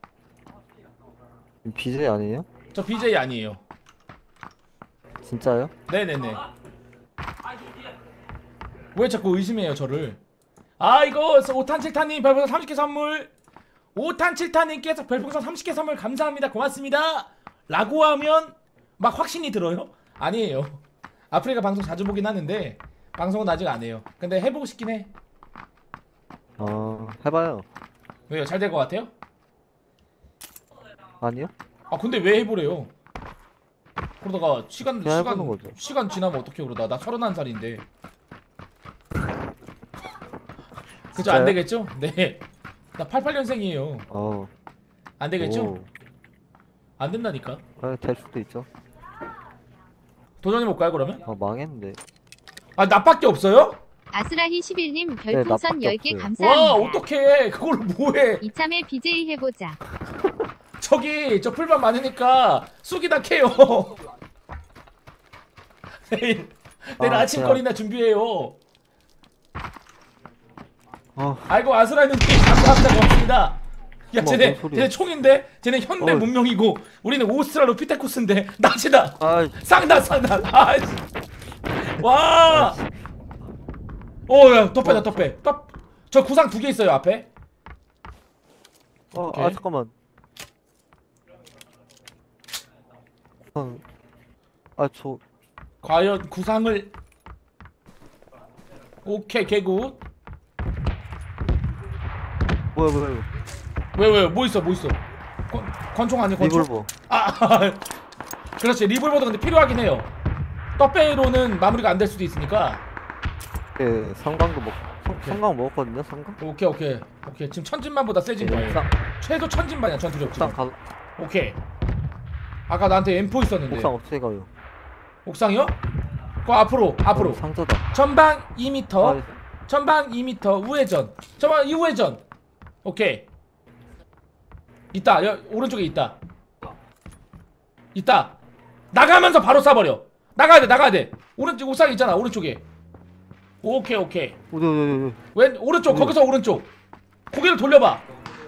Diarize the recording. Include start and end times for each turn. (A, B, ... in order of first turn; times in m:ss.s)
0:01.6-0:02.5 A
0:02.7-0:03.6 B
0:05.2-0:05.7 A
0:05.9-0:06.4 B
0:08.9-0:10.2 B
0:10.8-0:13.3 B
0:13.9-0:25.1 B
0:26.6-0:27.6 A
0:28.3-0:29.1 B
0:31.2-0:31.5 A
0:31.9-0:32.9 B
0:34.2-0:37.8 B
0:35.0-0:35.7 A
0:41.1-0:42.4 B
0:41.1-0:41.6 A
0:43.0-0:44.1 B
0:44.1-0:44.5 A
0:45.2-0:45.7 B
0:45.4-0:45.9 A
0:47.0-0:47.6 B
0:47.8-0:48.7 A
0:50.4-0:51.2 B
0:51.2-0:52.0 A
0:52.8-0:53.8 B
0:54.1-0:57.0 C
0:55.3-0:56.3 A
0:56.4-0:58.4 B
0:58.4-0:59.8 C
1:00.8-1:03.9 B
1:06.1-1:08.6 B
1:07.0-1:07.6 A
1:11.2-1:11.5 A
1:11.5-1:13.6 B
1:14.1-1:21.0 B
1:14.2-1:14.9 A
1:16.0-1:16.3 A
1:19.2-1:19.6 A
1:21.8-1:22.8 B
1:22.5-1:22.9 A
1:24.3-1:27.3 B
1:24.8-1:25.1 A
1:29.1-1:29.9 A
1:29.1-1:29.6 B
1:33.5-1:33.8 A
1:34.8-1:35.2 A
1:35.8-1:36.9 B
1:39.0-1:40.0 B
1:42.7-1:43.3 A
1:43.9-1:47.8 B
1:46.4-1:46.9 A
1:48.6-1:50.1 B
1:50.8-1:52.8 B
1:53.8-1:56.4 A
1:56.4-2:00.6 B
1:58.4-1:58.9 A
2:00.3-2:00.8 A
2:01.2-2:01.6 B
2:02.7-2:03.9 B
2:03.7-2:04.5 A
2:05.2-2:05.8 B
2:06.4-2:07.4 B
2:07.1-2:07.8 A
2:07.9-2:12.2 B
2:09.0-2:09.3 A
2:12.8-2:13.3 B
2:14.9-2:16.2 B
2:17.9-2:18.4 B
2:18.9-2:22.6 B
2:23.6-2:24.4 B
2:24.5-2:25.2 A
2:25.3-2:26.7 B
2:25.9-2:26.1 A
2:27.3-2:28.0 B